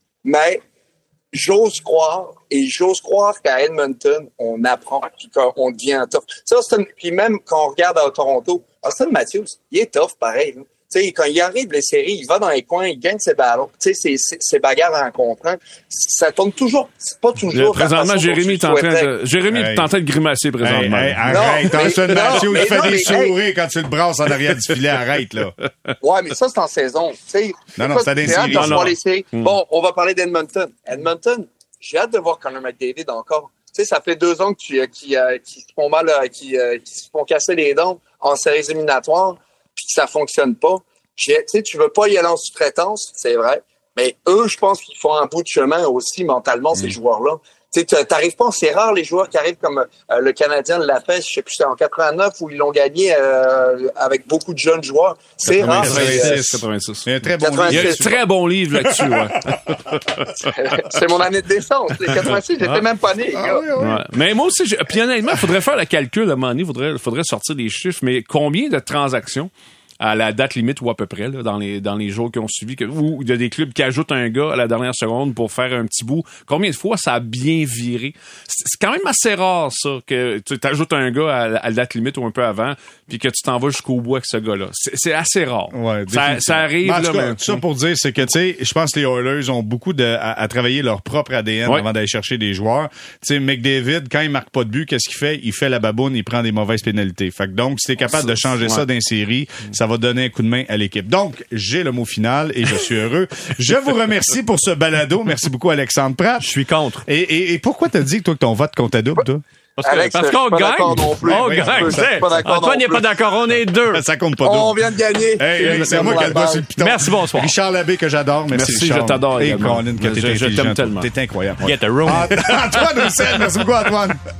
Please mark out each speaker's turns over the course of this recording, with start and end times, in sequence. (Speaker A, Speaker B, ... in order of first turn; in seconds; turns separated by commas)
Speaker A: 0.2-0.6, Speaker A: 1.3-19.1, Speaker B: 17.5-23.1, Speaker C: 19.5-19.9, Speaker C: 20.6-25.5, Speaker A: 21.2-23.4, Speaker A: 26.0-56.4, Speaker C: 27.8-28.9, Speaker B: 28.2-29.5, Speaker C: 55.5-58.1, Speaker B: 55.5-57.1, Speaker A: 57.4-58.2, Speaker B: 57.7-60.3, Speaker C: 58.8-59.6, Speaker A: 60.3-63.6, Speaker B: 62.1-62.4, Speaker C: 63.3-64.0, Speaker B: 63.8-69.5, Speaker B: 70.0-87.6, Speaker C: 85.7-106.5, Speaker B: 98.1-98.8, Speaker D: 106.4-107.0, Speaker C: 107.0-109.4, Speaker D: 109.8-114.0, Speaker A: 109.8-113.0, Speaker C: 111.0-112.3, Speaker C: 113.9-114.7, Speaker A: 114.4-116.7, Speaker C: 115.4-124.2, Speaker D: 115.6-117.5, Speaker B: 118.5-122.8, Speaker D: 121.6-123.1